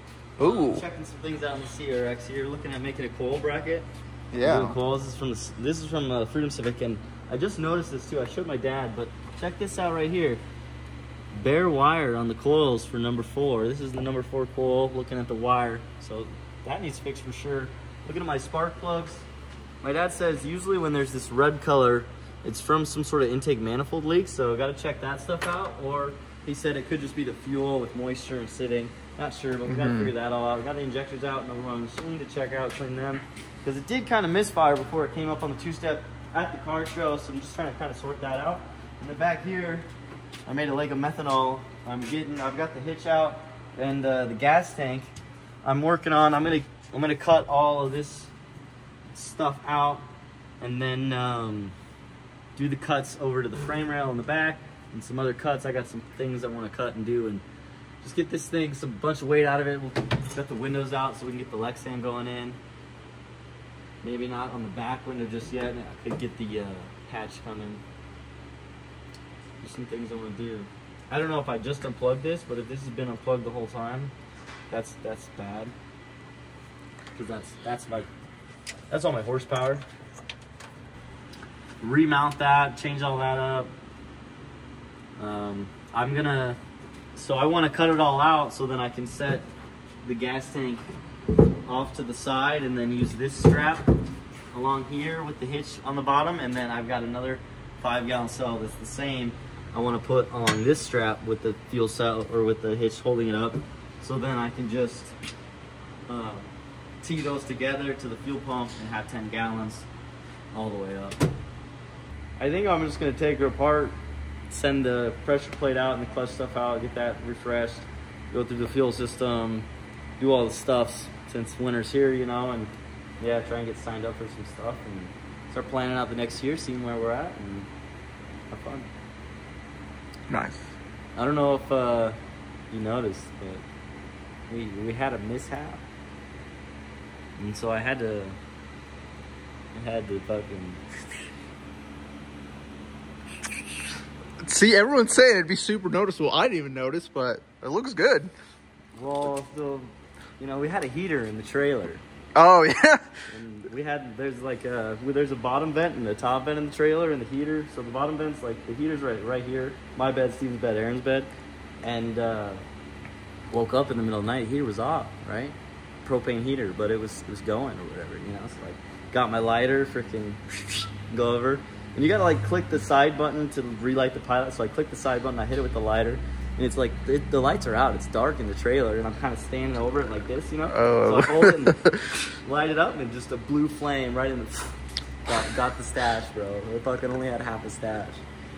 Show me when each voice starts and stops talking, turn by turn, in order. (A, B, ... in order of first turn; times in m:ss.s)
0:00.4-0:00.8 A
0:00.4-0:03.9 B
0:04.3-0:04.8 A
0:04.4-0:10.4 B
0:11.3-0:19.2 B
0:19.8-0:39.9 B
0:29.7-0:30.1 A
0:40.5-0:45.1 B
0:45.6-0:48.3 B
0:49.1-0:50.1 B
0:50.6-0:51.8 B
0:52.6-0:57.4 B
0:58.0-1:02.6 B
1:04.0-1:07.8 B
1:09.6-1:14.1 B
1:14.7-1:15.7 B
1:17.2-1:18.1 B
1:18.9-1:19.8 B
1:21.8-1:23.7 B
1:25.2-1:26.6 B
1:27.2-1:29.5 B
1:30.0-1:30.8 B
1:31.6-1:33.9 B
1:34.5-1:45.2 B
1:46.1-1:46.5 B
1:47.0-1:49.9 B
1:50.5-1:51.2 B
1:52.4-1:54.0 B
1:54.5-1:59.7 B
2:00.2-2:07.7 B
2:08.5-2:08.9 B
2:10.3-2:10.7 A
2:11.2-2:12.2 B
2:12.7-2:13.6 B
2:14.5-2:15.8 B
2:17.4-2:18.4 B
2:19.7-2:20.8 B
2:24.4-2:28.3 A
2:28.9-2:32.0 B
2:32.4-2:33.2 A
2:33.3-2:41.3 B
2:41.8-2:42.6 B
2:43.5-3:01.8 B
3:00.7-3:02.2 A
3:02.4-3:08.2 B